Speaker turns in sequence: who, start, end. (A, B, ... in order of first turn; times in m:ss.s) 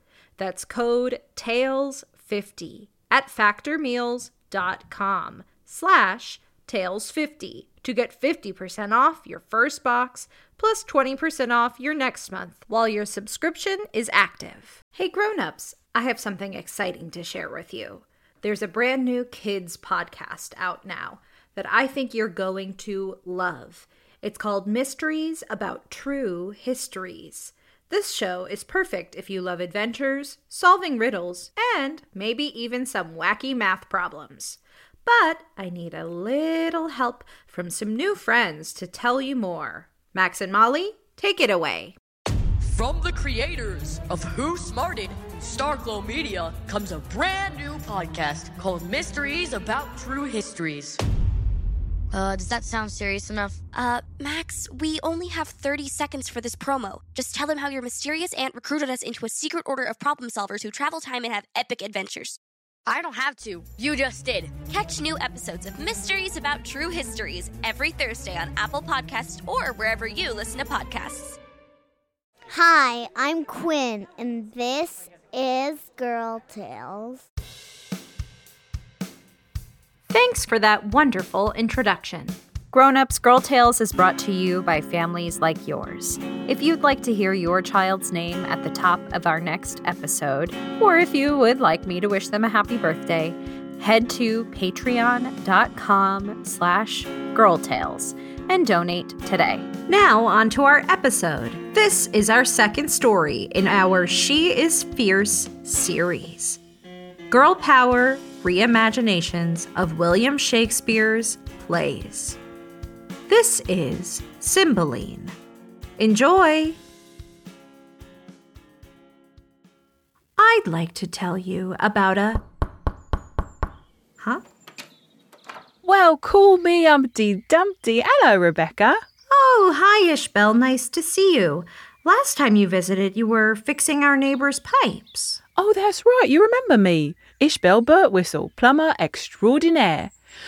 0:00.4-0:42.0 A
0:42.6-0:51.0 B
0:52.1-1:02.4 C
0:52.6-0:53.5 D
1:02.9-1:04.5 D
1:04.6-1:11.4 C
1:12.5-1:17.2 E
1:20.1-1:46.6 A
1:47.3-1:52.4 A
1:53.3-1:55.3 A
1:56.0-1:56.8 A
2:00.4-2:02.4 A
2:05.8-2:09.0 F
2:09.3-2:15.4 A
2:15.6-2:20.1 F